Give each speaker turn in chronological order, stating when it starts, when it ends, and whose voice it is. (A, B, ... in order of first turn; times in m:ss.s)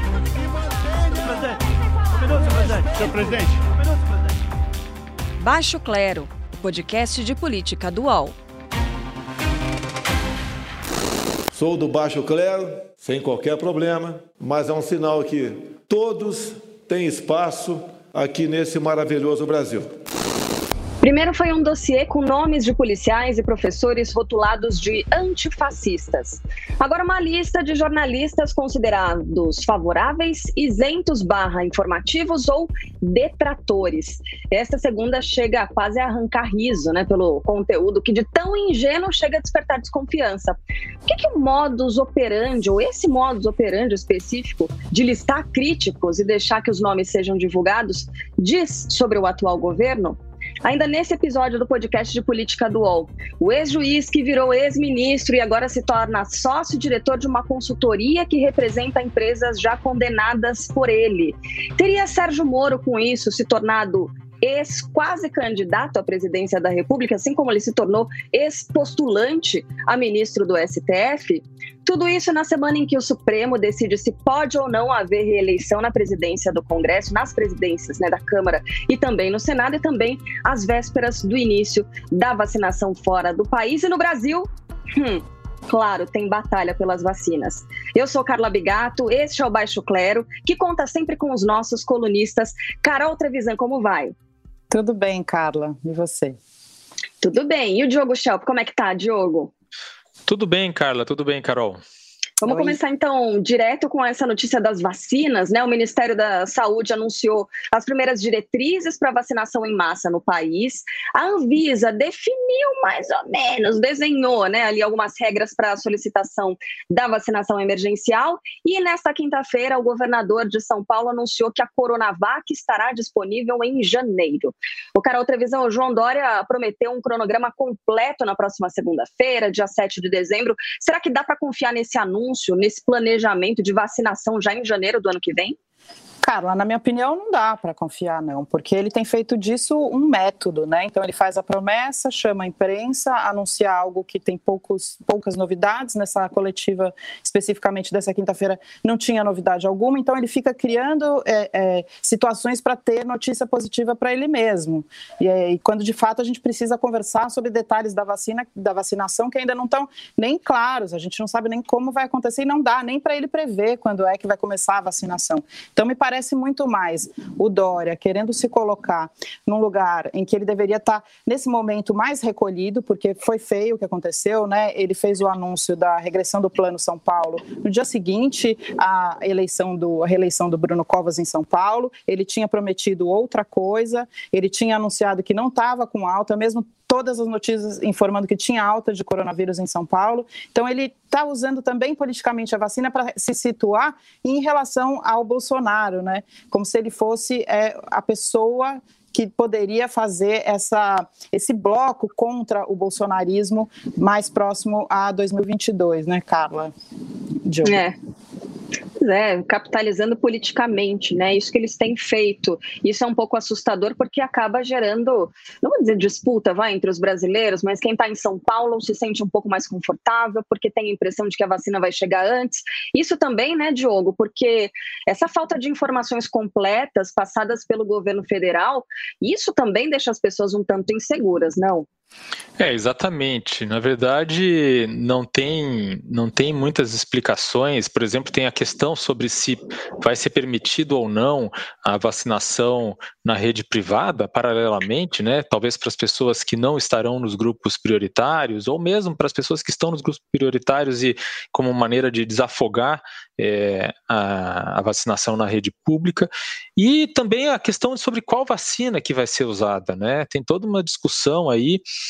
0:00.3-0:01.5 A
0:02.2-0:03.7 A
0:05.4-0:08.4 B
0:11.5-0:19.9 C
0:21.0-1:34.1 D
1:34.7-1:36.4 E
1:37.2-1:39.5 D
1:40.3-1:41.8 F
1:42.4-2:15.6 D
1:42.4-1:42.8 E
2:16.2-3:26.7 E
3:27.4-3:27.8 E
3:27.6-3:28.0 D
3:29.0-3:51.9 D
3:52.6-4:21.8 F